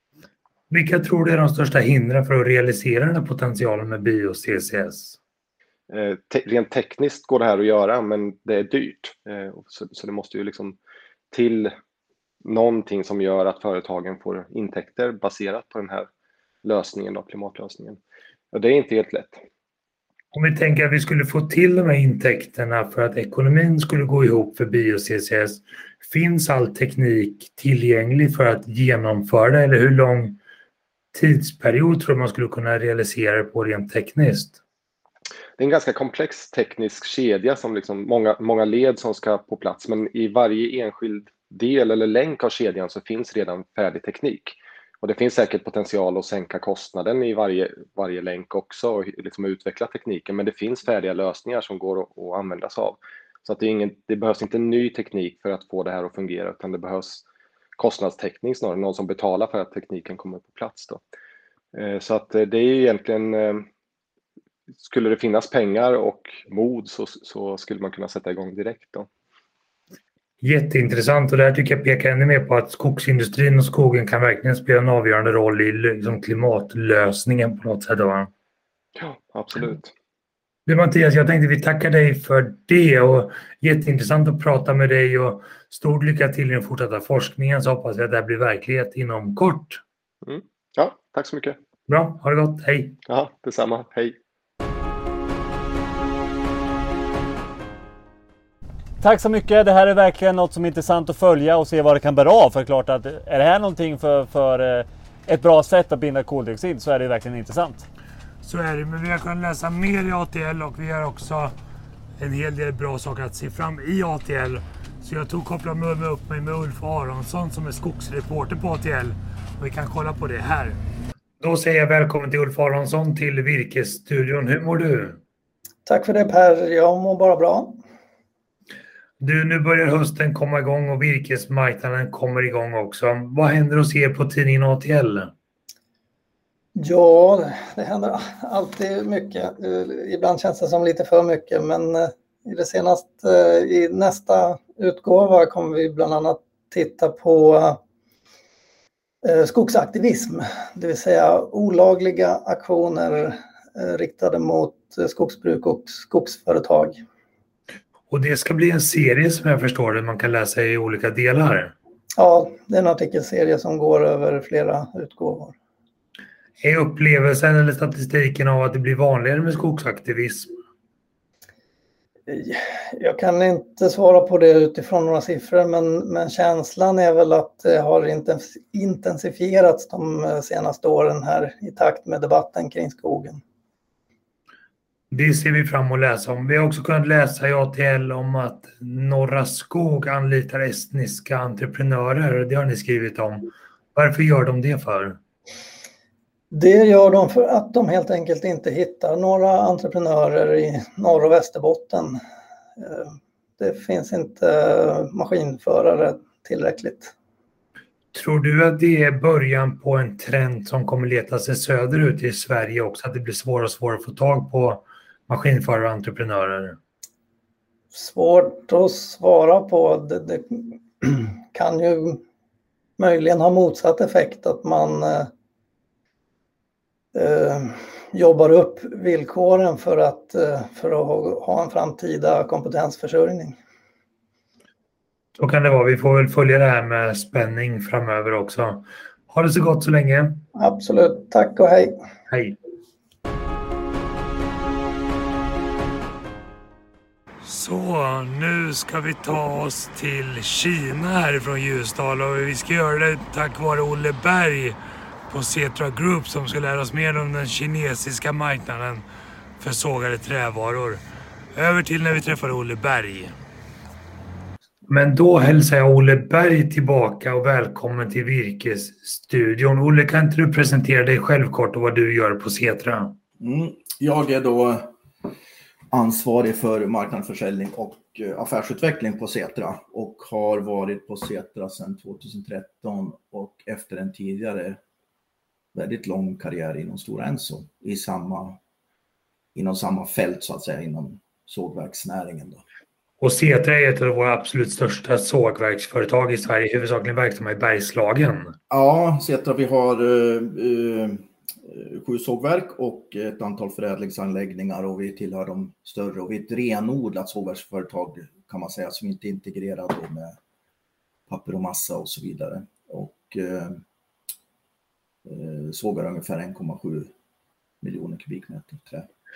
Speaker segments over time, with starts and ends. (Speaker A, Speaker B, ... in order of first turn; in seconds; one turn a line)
Speaker A: 0.7-5.2
Speaker B: 5.9-10.8
Speaker B: 11.3-11.7
Speaker B: 12.4-16.1
Speaker B: 16.6-18.0
Speaker B: 18.5-19.4
Speaker A: 20.3-30.4
Speaker A: 31.1-34.6
Speaker B: 35.6-57.2
Speaker B: 57.8-61.0
Speaker B: 61.7-63.6
Speaker B: 64.8-69.1
Speaker A: 70.4-78.3
Speaker B: 79.0-79.9
Speaker A: 80.7-89.8
Speaker B: 90.2-91.6
Speaker A: 91.9-93.0
Speaker B: 93.1-94.2
Speaker C: 99.0-107.8
Speaker A: 108.4-111.5
Speaker A: 112.2-120.8
Speaker A: 121.4-125.2
Speaker D: 125.8-127.8
Speaker A: 129.2-135.3
Speaker D: 136.8-147.8
Speaker D: 149.2-157.0
Speaker A: 158.1-161.7
Speaker D: 162.2-165.6
Speaker A: 166.6-170.5
Speaker D: 172.3-183.4
Speaker A: 185.1-195.2
Speaker D: 196.5-202.2
Speaker D: 202.8-207.1
Speaker A: 208.1-216.8
Speaker D: 217.9-222.2
Speaker D: 223.0-225.3
Speaker D: 227.1-233.6
Speaker A: 235.4-240.4
Speaker D: 240.5-241.9
Speaker A: 242.3-242.6
Speaker A: 247.4-254.8
Speaker A: 255.3-259.1
Speaker A: 259.6-261.0
Speaker A: 261.5-263.3
Speaker A: 264.9-273.1
Speaker E: 273.4-274.9
Speaker E: 275.9-284.8
Speaker E: 285.7-288.6
Speaker E: 289.5-292.6
Speaker A: 293.2-298.5
Speaker E: 298.7-310.4
Speaker E: 311.3-313.8
Speaker E: 315.2-317.1
Speaker E: 317.8-319.1